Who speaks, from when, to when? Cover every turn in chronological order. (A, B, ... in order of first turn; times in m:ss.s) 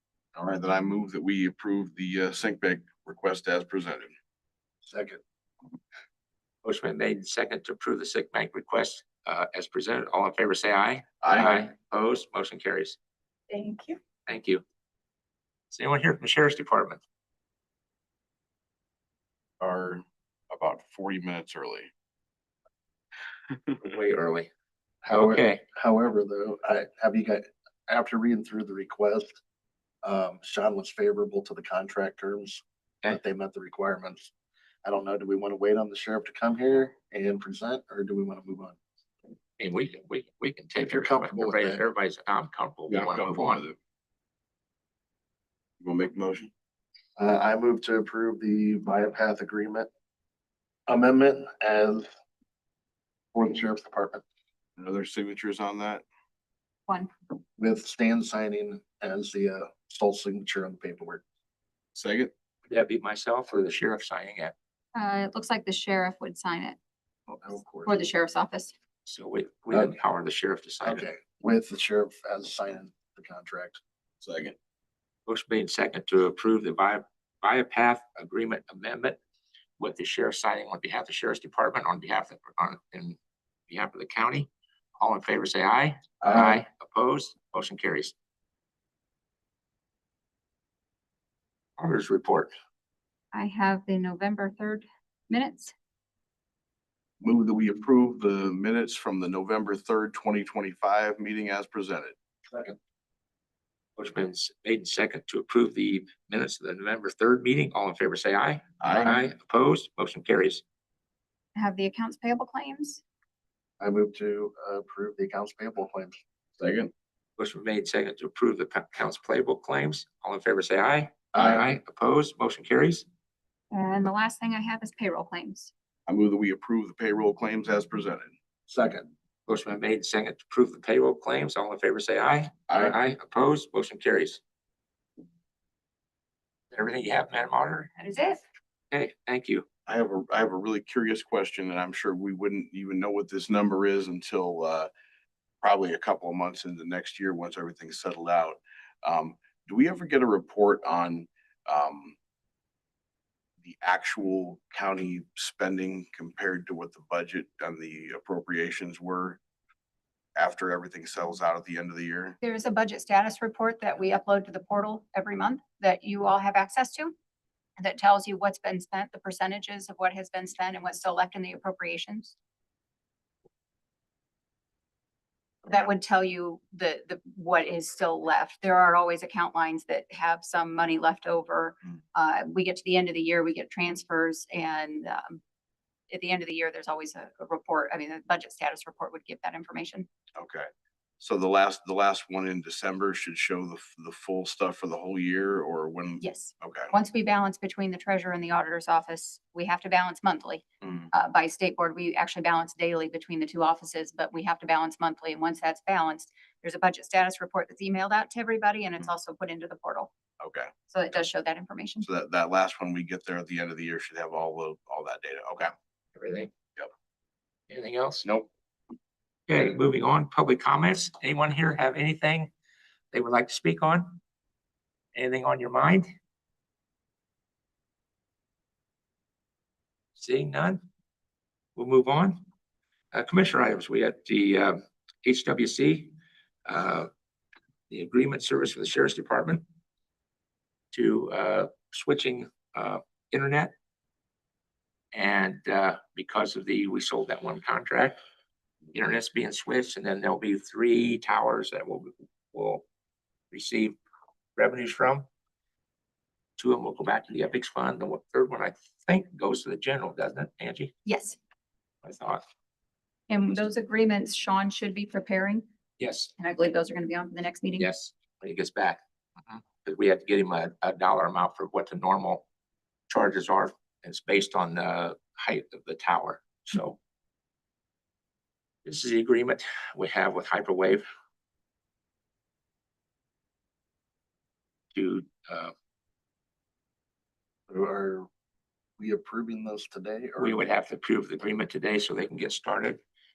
0:00.3-0:04.1 A
0:04.8-0:05.2 B
0:06.6-0:13.0 C
0:11.2-0:11.6 A
0:13.5-0:14.0 D
0:14.3-0:14.6 C
0:15.7-0:17.0 C
0:19.6-0:21.9 A
0:23.8-0:24.5 C
0:25.1-0:25.6 C
0:25.1-0:29.4 B
0:30.0-0:34.3 B
0:34.8-0:38.8 B
0:39.6-0:43.6 C
0:40.8-0:41.8 B
0:42.9-0:43.8 A
0:45.8-0:46.5 A
0:47.2-0:49.9 B
0:50.9-0:52.1 B
0:53.3-0:54.2 B
0:54.8-0:56.0 A
0:57.6-1:01.2 B
1:01.9-1:02.3 A
1:02.7-1:04.5 C
1:04.9-1:06.8 D
1:07.3-1:07.9 B
1:07.8-1:08.7 D
1:09.0-1:11.0 C
1:10.8-1:13.8 B
1:14.2-1:14.6 A
1:15.2-1:19.2 C
1:19.8-1:28.1 C
1:26.2-1:26.6 B
1:31.8-1:32.5 C
1:33.3-1:35.7 D
1:37.2-1:42.2 A
1:44.0-1:50.6 C
1:48.8-1:49.2 A
1:51.5-1:53.0 D
1:53.8-1:56.2 B
1:56.6-1:56.9 A
1:57.4-2:03.0 C
2:01.4-2:01.6 B
2:03.7-2:05.7 D
2:06.1-2:08.4 A
2:08.7-2:09.1 B
2:09.5-2:14.4 C
2:16.7-2:17.9 C
2:18.0-2:18.4 D
2:18.9-2:19.6 C
2:19.9-2:24.9 A
2:25.6-2:32.2 A
2:33.6-2:39.4 A
2:40.4-2:42.4 A
2:42.4-2:47.1 D
2:47.8-2:52.3 D
2:55.6-3:05.4 D
3:06.1-3:10.1 D
3:10.4-3:10.7 A
3:11.2-3:16.9 A
3:16.2-3:30.1 D
3:20.8-3:21.1 A
3:30.4-3:30.7 A
3:30.9-3:32.1 D
3:32.0-3:35.7 A
3:36.1-3:36.5 C
3:37.7-3:38.3 C
3:39.5-3:42.5 C
3:43.1-3:44.2 C
3:45.1-3:46.1 C
3:50.2-3:50.8 C
3:51.8-3:52.4 C
3:53.1-3:56.1 C
3:56.6-3:57.1 C
3:57.9-3:59.6 C
4:00.9-4:03.7 C
4:05.1-4:08.2 C
4:08.9-4:12.8 C
4:13.5-4:14.0 C
4:14.6-4:15.2 C
4:16.6-4:20.9 C
4:21.0-4:21.4 D
4:22.0-4:22.4 C
4:23.3-4:25.6 D
4:26.0-4:26.3 C
4:26.4-4:27.9 D
4:27.8-4:32.4 C
4:33.1-4:37.0 C
4:38.8-4:41.0 C
4:44.9-4:45.7 C
4:47.7-4:48.3 B
4:49.0-4:50.6 B
4:50.4-4:53.0 C